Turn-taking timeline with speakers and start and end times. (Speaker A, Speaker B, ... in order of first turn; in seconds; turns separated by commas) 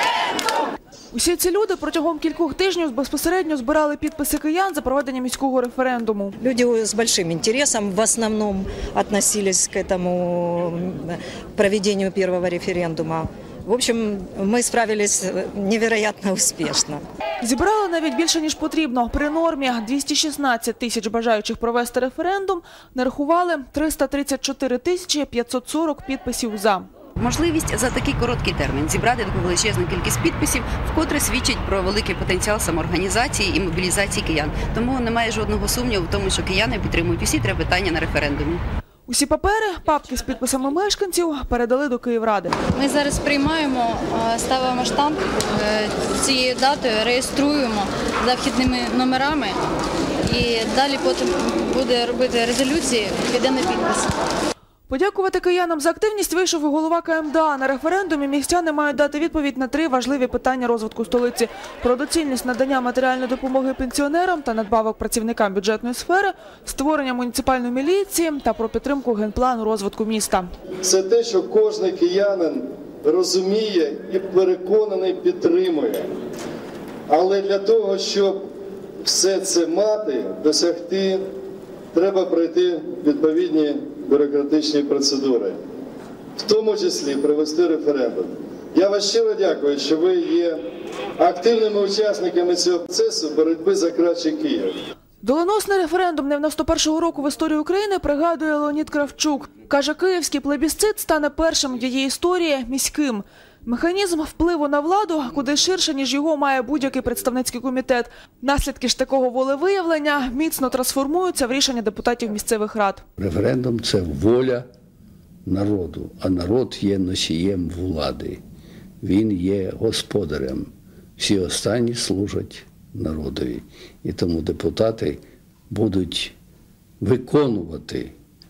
Speaker A: 1.1-6.4, Speaker B: 6.4-17.0, Speaker A: 17.4-26.9, Speaker C: 27.2-38.6, Speaker A: 39.1-42.5, Speaker D: 42.8-49.6, Speaker D: 50.2-54.1, Speaker A: 54.9-70.5, Speaker E: 70.8-76.1, Speaker E: 77.1-78.4, Speaker E: 79.0-81.2, Speaker E: 81.9-85.6, Speaker E: 86.4-90.6, Speaker E: 91.2-94.8, Speaker A: 95.2-113.0, Speaker F: 113.2-114.7, Speaker F: 115.5-118.4, Speaker F: 119.0-126.3, Speaker F: 127.0-128.1